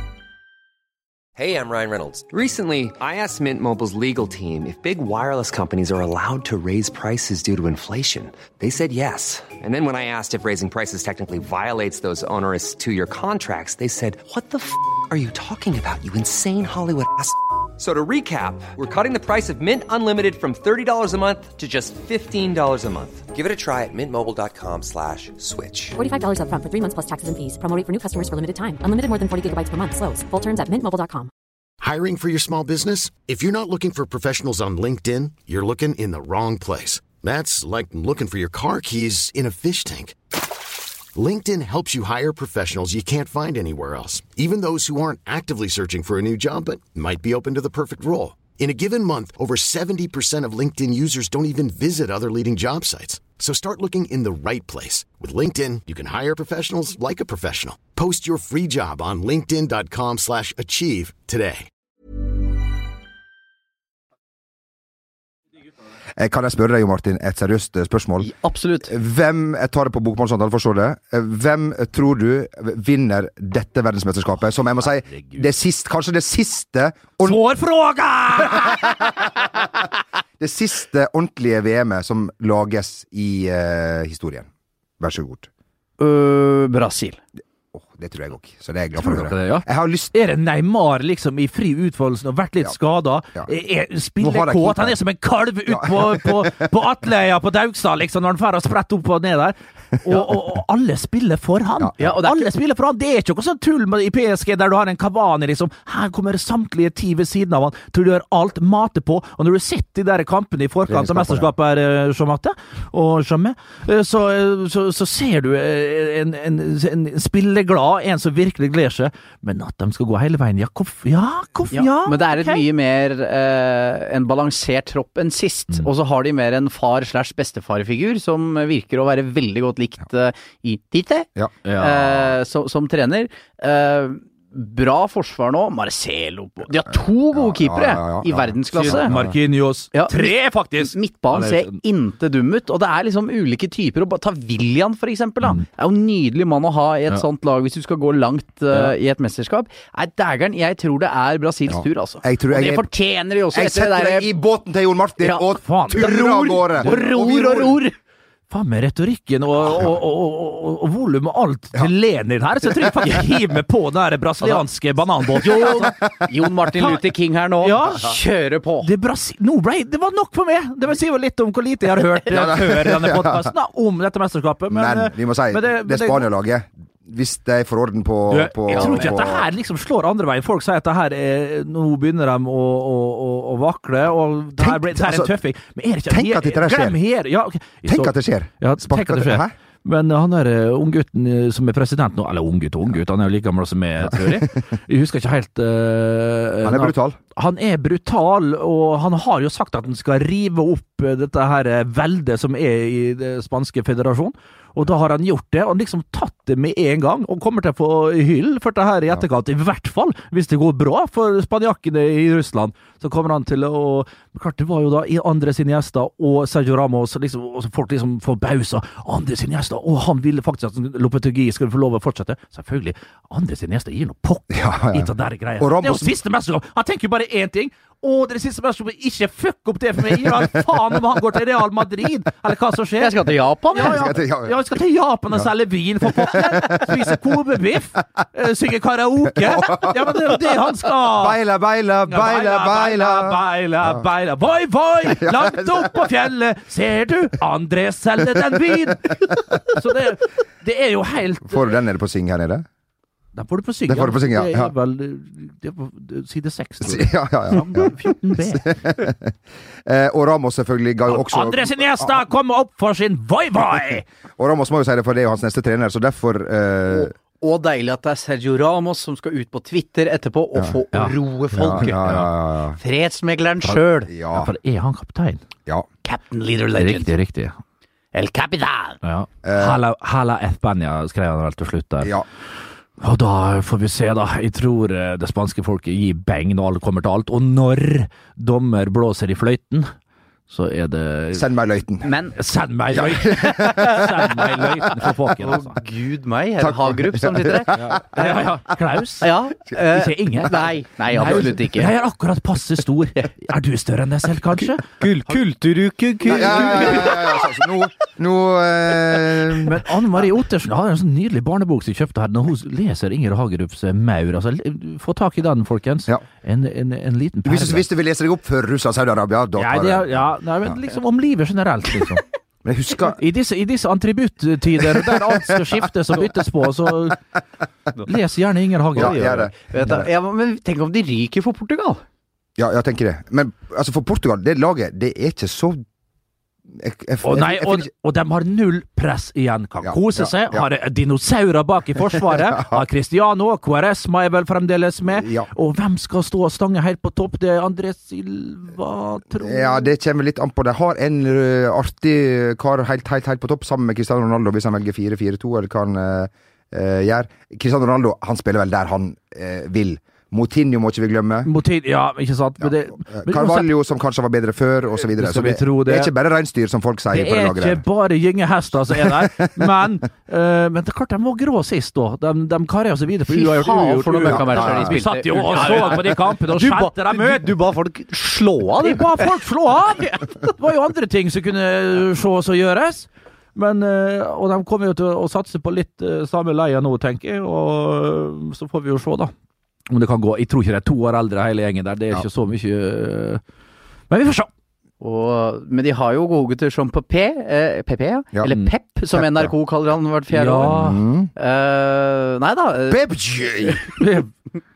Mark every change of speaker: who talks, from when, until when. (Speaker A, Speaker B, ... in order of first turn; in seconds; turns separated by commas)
Speaker A: 1.4-26.0, Speaker B: 26.0-31.3, Speaker C: 31.8-40.2, Speaker C: 41.1-61.6, Speaker D: 66.2-77.4, Speaker E: 68.2-68.9, Speaker F: 77.2-79.1, Speaker D: 78.5-79.0, Speaker D: 80.4-84.5, Speaker D: 85.0-85.5, Speaker E: 86.0-87.2, Speaker D: 87.7-90.1, Speaker F: 89.0-122.6, Speaker D: 94.2-95.0, Speaker D: 95.7-96.7, Speaker E: 102.0-102.5, Speaker D: 110.9-111.5, Speaker E: 121.7-139.1, Speaker F: 131.6-132.3, Speaker D: 137.3-139.3, Speaker F: 138.7-141.8, Speaker E: 139.9-154.3, Speaker D: 151.7-152.9, Speaker D: 153.5-157.8, Speaker E: 155.2-157.9, Speaker F: 155.6-157.4, Speaker F: 158.5-165.9, Speaker E: 165.4-168.9, Speaker D: 165.7-166.2, Speaker F: 167.6-168.2, Speaker F: 168.8-176.3, Speaker D: 172.3-173.5, Speaker D: 174.7-179.5, Speaker F: 178.3-233.2, Speaker E: 178.7-179.2, Speaker D: 184.6-185.3, Speaker D: 186.1-187.0, Speaker D: 187.8-189.5, Speaker D: 194.0-194.5, Speaker D: 196.6-197.2, Speaker D: 224.5-226.1, Speaker D: 230.2-230.6, Speaker E: 233.0-234.0, Speaker F: 233.7-241.4, Speaker D: 233.7-234.6, Speaker D: 236.0-237.2, Speaker D: 239.3-240.4, Speaker D: 241.2-244.0, Speaker F: 242.1-251.7, Speaker D: 245.0-246.0, Speaker D: 248.4-249.0, Speaker D: 251.4-252.6, Speaker F: 253.3-258.7, Speaker D: 253.9-254.7, Speaker D: 256.8-259.3, Speaker D: 259.8-262.2, Speaker F: 261.1-264.1, Speaker D: 264.4-267.1, Speaker E: 266.9-272.1, Speaker F: 270.9-272.3, Speaker D: 271.5-272.8, Speaker E: 272.8-274.1, Speaker F: 273.6-275.4, Speaker D: 274.1-274.5, Speaker E: 276.0-277.1, Speaker F: 276.8-277.6, Speaker E: 278.1-279.0, Speaker F: 279.0-282.1, Speaker D: 279.4-279.8, Speaker F: 283.0-289.9, Speaker F: 290.5-291.5, Speaker D: 291.3-292.1, Speaker E: 292.0-292.3, Speaker F: 292.3-295.8, Speaker D: 292.9-294.4, Speaker E: 295.4-298.5, Speaker D: 296.6-298.3, Speaker F: 297.7-305.4, Speaker E: 299.2-301.9, Speaker E: 305.0-307.5, Speaker D: 306.2-309.8, Speaker F: 309.6-317.9, Speaker D: 317.4-320.7, Speaker F: 319.6-322.2, Speaker D: 322.6-323.2, Speaker F: 323.2-327.2, Speaker D: 324.8-325.7, Speaker F: 328.0-329.5, Speaker D: 328.9-330.1, Speaker E: 328.9-332.0, Speaker D: 332.6-335.8, Speaker D: 336.7-337.9, Speaker F: 337.2-349.9, Speaker D: 339.8-340.7, Speaker D: 342.1-342.8, Speaker D: 345.1-345.5, Speaker D: 349.4-361.5, Speaker F: 361.4-363.7, Speaker D: 362.6-367.8, Speaker F: 365.1-366.1, Speaker F: 367.1-377.5, Speaker D: 368.9-369.7, Speaker E: 373.3-379.3, Speaker D: 374.2-375.9, Speaker F: 378.8-389.3, Speaker F: 389.9-393.4, Speaker F: 394.1-394.5, Speaker E: 395.0-403.1, Speaker D: 399.1-399.5, Speaker F: 400.3-401.0, Speaker D: 400.6-401.3, Speaker D: 402.9-403.8, Speaker E: 403.6-403.9, Speaker F: 404.0-404.3